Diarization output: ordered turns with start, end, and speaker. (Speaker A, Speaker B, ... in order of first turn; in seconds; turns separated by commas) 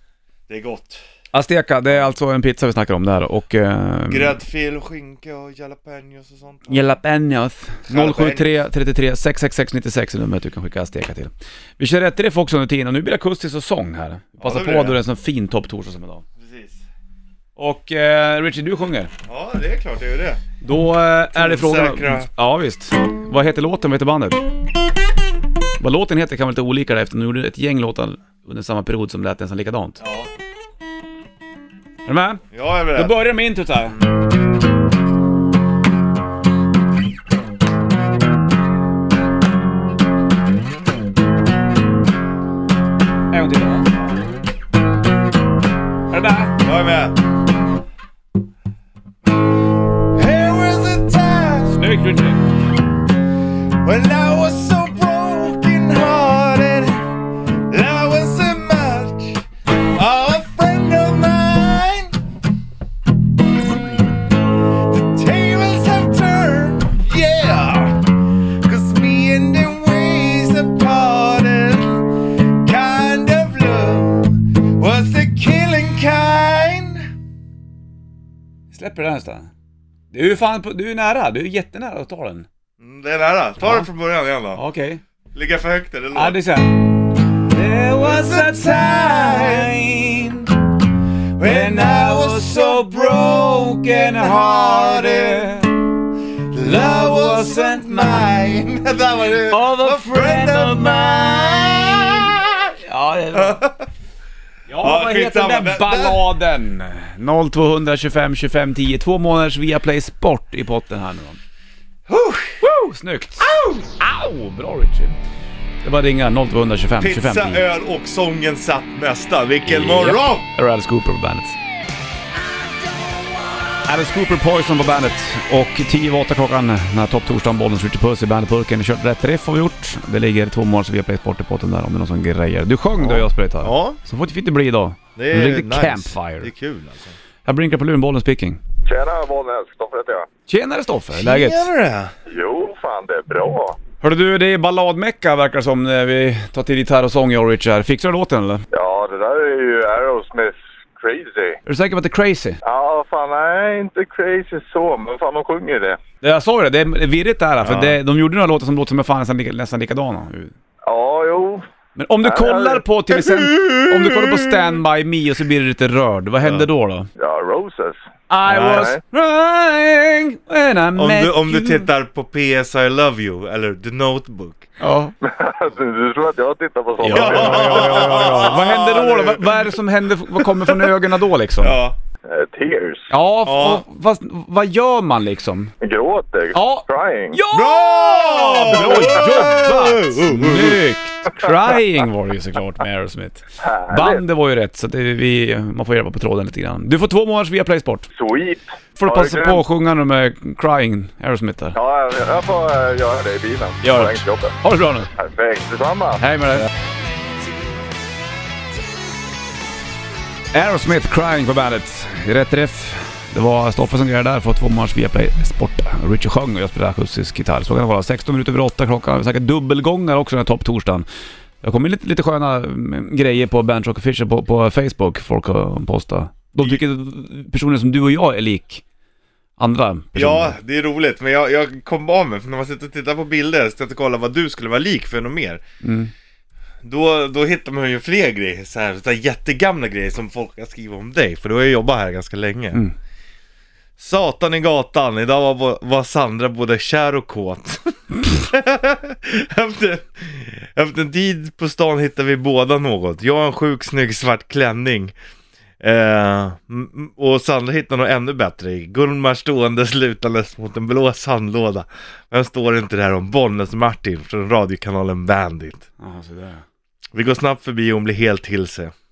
Speaker A: 0.5-1.0, Speaker B: 1.3-4.4, Speaker A: 4.1-6.8, Speaker B: 6.7-16.2, Speaker A: 7.9-8.6, Speaker A: 14.4-15.0, Speaker A: 16.4-16.9, Speaker B: 17.6-19.1, Speaker A: 19.3-20.4, Speaker B: 20.6-24.5, Speaker A: 21.3-22.3, Speaker B: 25.8-30.0, Speaker A: 30.0-30.3, Speaker B: 32.0-32.4, Speaker A: 32.5-33.1, Speaker B: 32.9-34.1, Speaker B: 43.3-43.9, Speaker B: 46.1-46.6, Speaker A: 46.5-47.2, Speaker A: 49.9-51.9, Speaker B: 51.8-52.5, Speaker A: 53.7-62.2, Speaker A: 64.7-77.1, Speaker B: 78.7-79.5, Speaker B: 80.1-82.5, Speaker A: 82.8-84.6, Speaker B: 83.6-83.9, Speaker B: 84.5-85.0, Speaker A: 85.3-86.4, Speaker B: 86.1-90.5, Speaker A: 87.9-89.7, Speaker A: 91.4-95.7, Speaker B: 91.4-95.8, Speaker A: 96.4-102.7, Speaker B: 96.6-98.3, Speaker B: 99.5-101.2, Speaker B: 102.8-103.6, Speaker A: 103.3-103.9, Speaker B: 104.7-111.4, Speaker A: 104.8-106.3, Speaker A: 112.1-112.7, Speaker B: 112.6-115.2, Speaker A: 113.4-113.9, Speaker B: 115.8-117.6, Speaker A: 117.0-120.5, Speaker B: 119.7-121.6, Speaker B: 123.8-136.5, Speaker A: 133.0-134.0, Speaker A: 135.2-137.2, Speaker B: 137.5-138.6, Speaker C: 138.9-140.3, Speaker B: 140.5-141.7, Speaker A: 141.1-142.1, Speaker C: 142.3-143.8, Speaker B: 144.0-148.6, Speaker C: 148.7-151.6, Speaker B: 151.7-152.6, Speaker C: 152.6-156.0, Speaker B: 156.2-160.6, Speaker A: 157.6-158.0, Speaker C: 160.9-161.7, Speaker B: 162.0-167.1, Speaker C: 162.2-162.8, Speaker A: 163.1-164.8, Speaker A: 166.4-166.7, Speaker C: 167.2-168.0, Speaker B: 168.3-171.9, Speaker A: 168.4-168.9, Speaker C: 168.5-169.0, Speaker A: 171.0-174.7, Speaker B: 174.8-175.1, Speaker C: 175.2-178.4, Speaker B: 177.0-181.8, Speaker A: 177.1-181.1, Speaker A: 181.6-182.0, Speaker C: 182.3-183.1, Speaker B: 183.1-185.7, Speaker A: 183.4-183.8, Speaker C: 185.8-187.4, Speaker B: 186.5-198.1, Speaker A: 187.5-190.8, Speaker C: 193.6-194.2, Speaker C: 198.1-199.6, Speaker B: 199.0-201.8, Speaker C: 201.7-204.6, Speaker B: 203.8-205.1, Speaker C: 205.2-206.2, Speaker B: 206.2-206.7, Speaker B: 210.5-221.1, Speaker B: 221.6-228.8, Speaker B: 229.6-230.6, Speaker A: 230.2-235.6, Speaker B: 235.8-236.1, Speaker A: 236.8-242.8, Speaker A: 244.0-255.1, Speaker A: 255.8-265.9, Speaker B: 266.0-266.6, Speaker A: 267.1-268.9